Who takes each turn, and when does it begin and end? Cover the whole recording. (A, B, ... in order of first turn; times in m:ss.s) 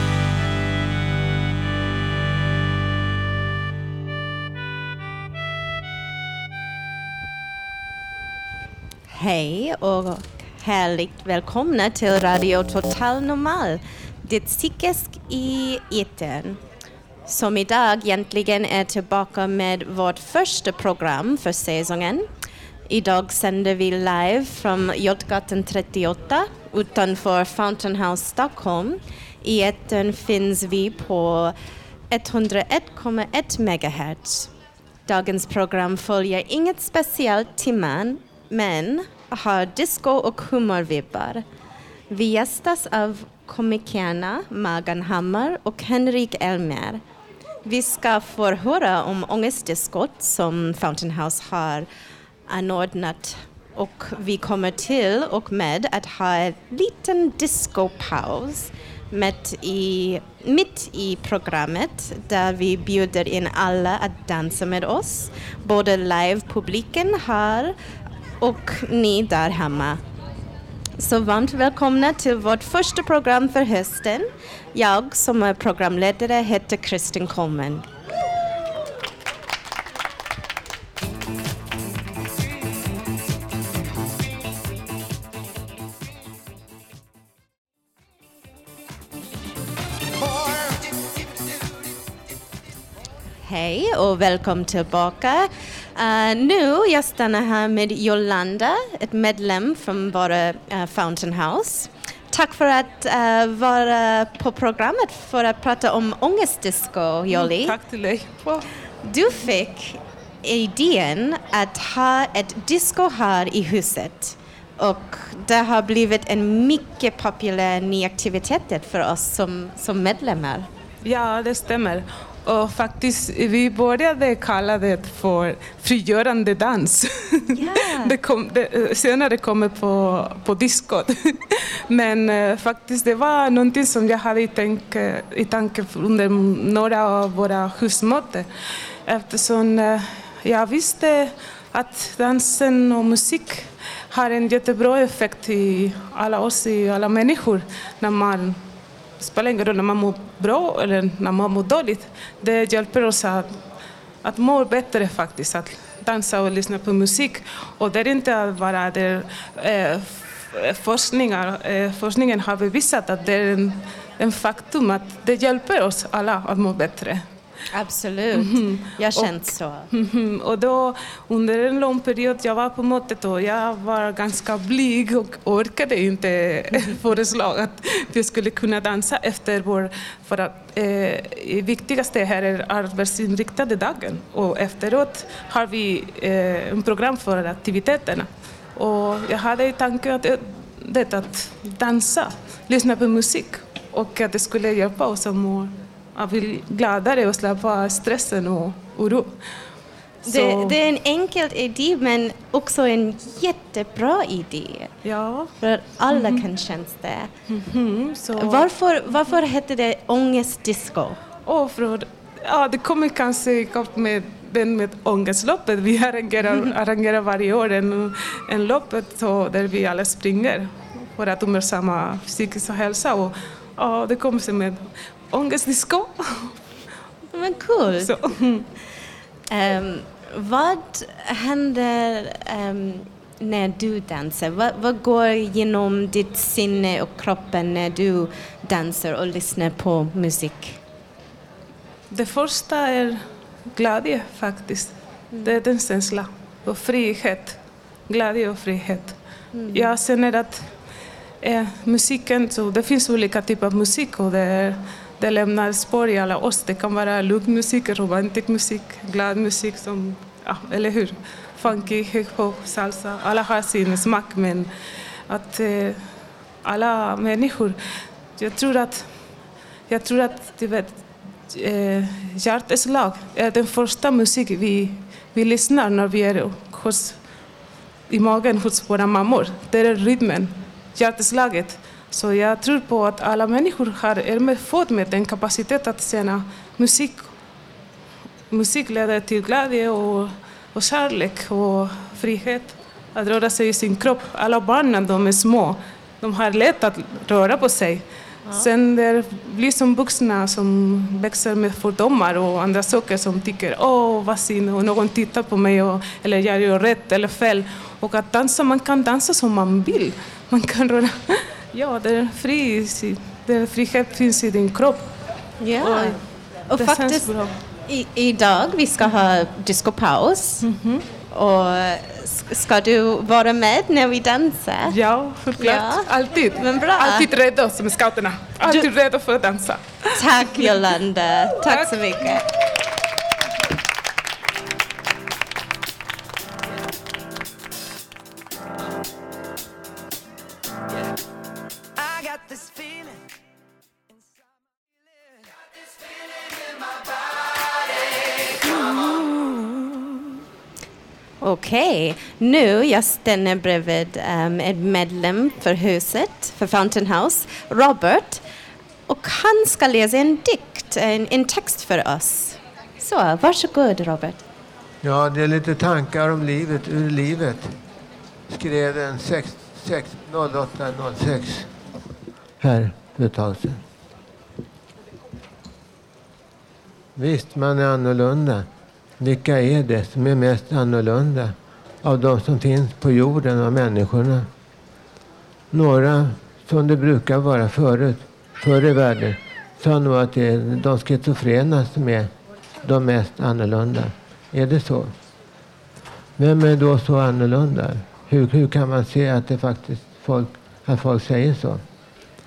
0:09.1-0:16.6 A
0:17.3-0:22.3 A
0:22.9-0:31.6 A
0:32.1-0:34.5 A
0:35.1-0:41.4 A
0:42.1-0:47.0 A
0:47.6-0:51.9 A
0:52.5-1:07.8 A
1:08.4-1:10.0 A
1:11.0-1:17.9 A
1:33.4-1:47.8 A
1:47.3-1:48.6 B
1:49.0-2:00.7 A
2:01.0-2:18.5 B
2:07.5-2:08.2 A
2:19.0-2:28.6 B
2:29.2-2:33.6 B
2:34.2-2:47.2 B
2:47.7-2:49.9 A
2:48.3-3:19.4 B
3:20.2-3:20.8 B
3:20.3-3:24.9 A
3:25.0-3:25.5 B
3:25.6-3:27.3 A
3:26.1-3:26.4 B
3:27.5-3:28.7 B
3:28.4-3:31.2 A
3:31.5-3:46.6 B
3:47.3-3:48.1 A
3:48.0-3:48.7 B
3:49.5-4:00.8 A
4:02.1-4:07.6 B
4:08.1-4:09.2 B
4:09.5-4:09.9 A
4:09.7-4:10.7 B
4:11.4-4:24.7 B
4:25.3-4:26.0 B
4:26.6-4:27.8 B
4:28.4-4:29.1 B
4:29.9-4:37.2 B
4:38.1-4:47.3 B
4:48.5-5:15.1 B
5:15.6-5:20.6 A
5:15.8-5:16.2 B
5:16.8-5:17.6 B
5:20.6-5:21.1 B
5:21.2-5:25.0 A
5:24.8-5:30.9 B
5:25.6-5:27.3 A
5:30.2-5:32.4 A
5:31.6-5:32.0 B
5:51.4-5:58.4 A
5:59.1-6:04.4 A
6:05.0-6:07.8 C
6:08.5-6:11.7 C
6:12.6-6:13.8 C
6:17.2-6:18.7 C
6:19.2-6:24.5 C
6:25.7-6:32.3 C
6:32.8-6:35.1 C
6:36.4-6:41.8 C